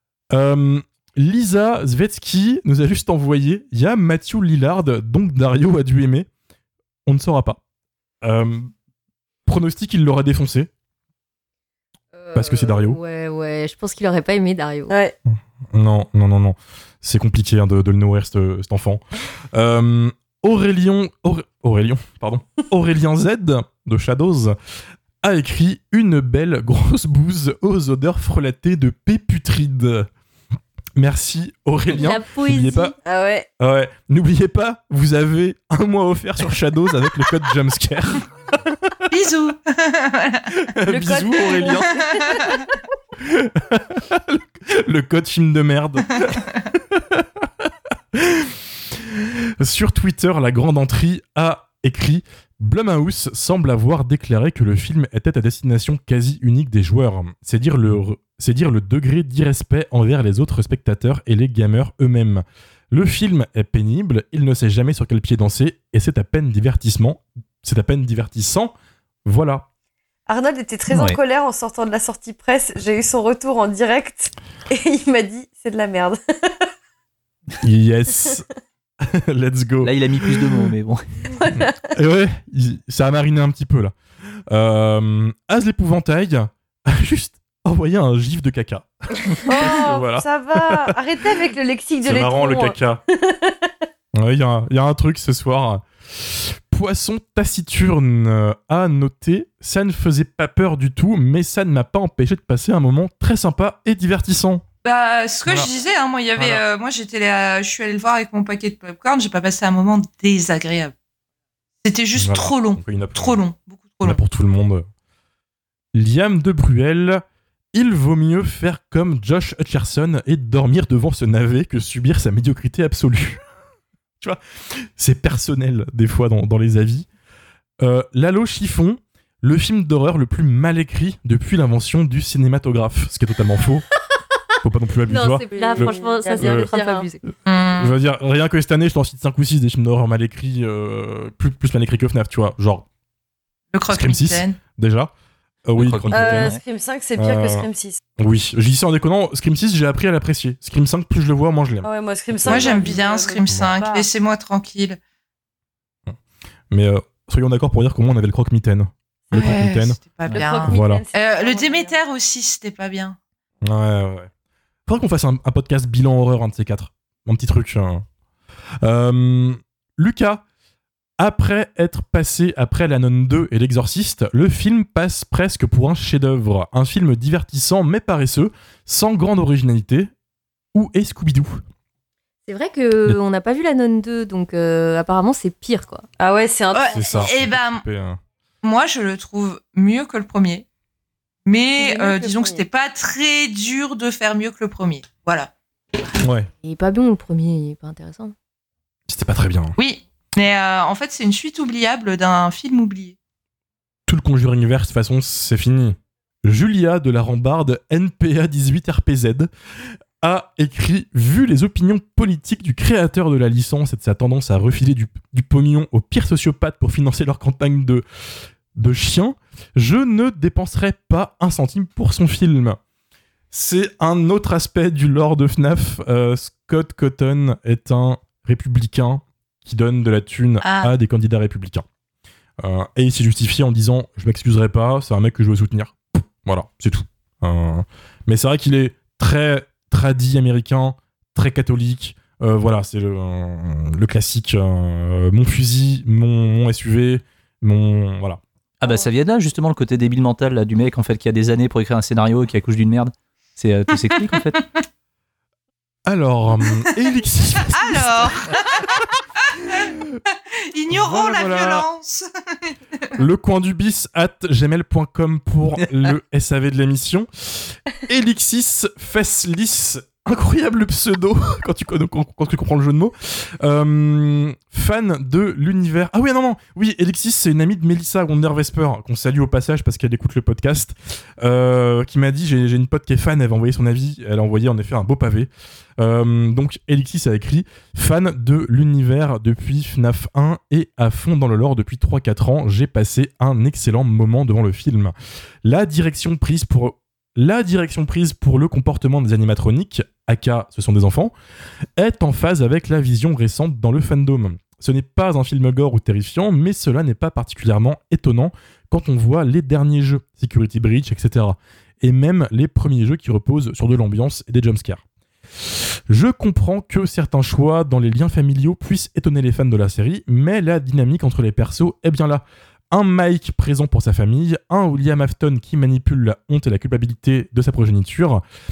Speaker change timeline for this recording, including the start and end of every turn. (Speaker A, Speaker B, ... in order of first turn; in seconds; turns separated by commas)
Speaker A: 0.3-6.3, Speaker A: 7.1-7.6, Speaker A: 8.2-8.7, Speaker A: 9.5-10.7, Speaker B: 12.1-14.9, Speaker A: 12.3-13.0, Speaker C: 14.9-15.2, Speaker A: 15.3-19.0, Speaker A: 19.5-24.6, Speaker A: 25.2-30.1, Speaker A: 31.0-32.9, Speaker B: 31.9-33.0, Speaker C: 33.0-33.5, Speaker A: 33.6-39.0, Speaker D: 39.1-40.5, Speaker A: 40.5-41.9, Speaker C: 40.9-42.6, Speaker A: 43.2-68.7, Speaker A: 69.2-69.7, Speaker C: 70.3-76.7, Speaker E: 70.9-71.2, Speaker A: 77.6-78.5, Speaker A: 79.0-80.7, Speaker E: 79.8-81.5, Speaker C: 81.4-81.8, Speaker A: 81.5-84.0, Speaker A: 84.5-90.8, Speaker C: 89.5-93.7, Speaker A: 92.0-93.0, Speaker A: 94.1-104.6, Speaker D: 104.8-110.9, Speaker A: 106.4-106.6, Speaker D: 111.8-114.2, Speaker A: 112.2-113.4, Speaker A: 114.0-114.9, Speaker A: 115.9-123.4, Speaker A: 124.2-127.1, Speaker A: 127.8-133.8, Speaker A: 134.6-136.7, Speaker B: 135.1-137.3, Speaker C: 135.5-137.1, Speaker D: 137.5-137.9, Speaker A: 137.8-142.9, Speaker D: 143.7-144.6, Speaker A: 143.9-145.1, Speaker A: 145.7-146.6, Speaker E: 145.8-146.6, Speaker C: 146.1-148.0, Speaker A: 147.2-153.7, Speaker C: 151.8-154.1, Speaker D: 152.5-155.0, Speaker A: 156.7-161.0, Speaker D: 159.3-163.2, Speaker C: 160.2-162.0, Speaker A: 163.6-164.3, Speaker A: 164.9-168.1, Speaker A: 168.8-170.4, Speaker A: 171.2-180.1, Speaker A: 180.7-181.6, Speaker B: 182.5-186.1, Speaker C: 186.2-187.3, Speaker D: 186.7-187.8, Speaker A: 186.9-188.2, Speaker D: 188.6-190.7, Speaker D: 191.4-195.5, Speaker C: 191.8-192.6, Speaker A: 196.2-196.5, Speaker B: 196.6-198.3, Speaker A: 199.1-199.8, Speaker D: 199.8-203.2, Speaker A: 204.1-209.5, Speaker A: 210.2-218.0, Speaker A: 218.7-222.8, Speaker A: 223.5-231.8, Speaker D: 230.6-230.9, Speaker A: 232.6-248.4, Speaker E: 248.8-254.6, Speaker A: 256.1-259.1, Speaker D: 257.7-258.9, Speaker D: 259.5-259.9, Speaker A: 259.8-260.2, Speaker D: 260.7-263.1, Speaker A: 260.9-261.9, Speaker A: 263.2-301.3, Speaker A: 302.0-315.0, Speaker A: 315.6-328.4